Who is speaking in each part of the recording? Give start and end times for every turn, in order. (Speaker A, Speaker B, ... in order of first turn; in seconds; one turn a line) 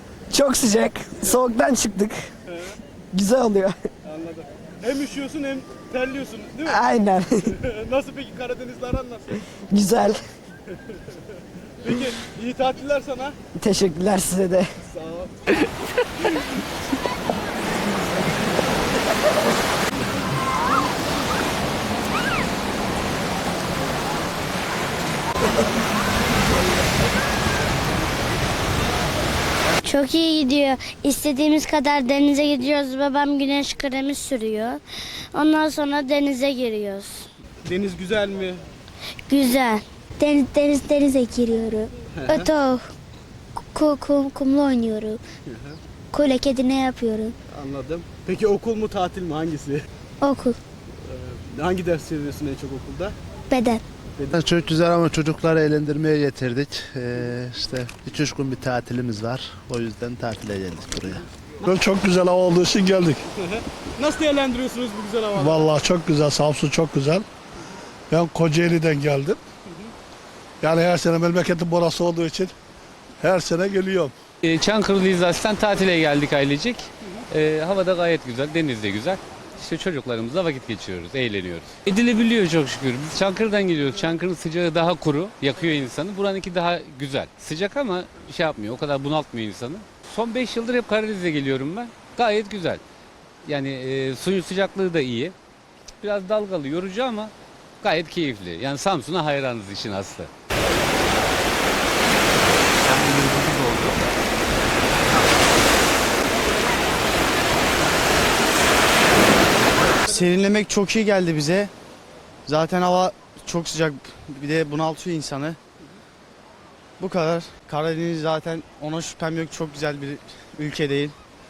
Speaker A: 0.3-2.3
Speaker B: 2.5-2.8
Speaker A: 3.1-3.8
Speaker B: 4.0-6.7
Speaker A: 6.7-7.6
Speaker B: 7.5-9.3
Speaker A: 9.5-10.2
Speaker B: 11.8-13.4
Speaker A: 13.6-14.7
Speaker B: 14.8-15.4
Speaker C: 29.8-37.3
Speaker B: 37.6-38.6
Speaker C: 39.3-42.9
Speaker B: 42.1-42.4
Speaker C: 43.7-45.2
Speaker B: 45.5-45.8
Speaker C: 46.1-47.4
Speaker B: 47.5-49.8
Speaker C: 50.2-50.6
Speaker B: 51.0-53.2
Speaker C: 53.5-53.8
Speaker D: 54.3-61.3
Speaker E: 61.6-63.2
Speaker B: 63.3-65.7
Speaker E: 65.3-67.2
Speaker E: 68.1-69.4
Speaker E: 70.6-72.5
Speaker E: 73.2-74.2
Speaker F: 74.4-92.8
Speaker F: 93.4-95.3
Speaker F: 96.0-100.3
Speaker F: 102.9-103.9
Speaker G: 110.0-111.7
Speaker G: 112.5-115.6
Speaker G: 117.0-121.2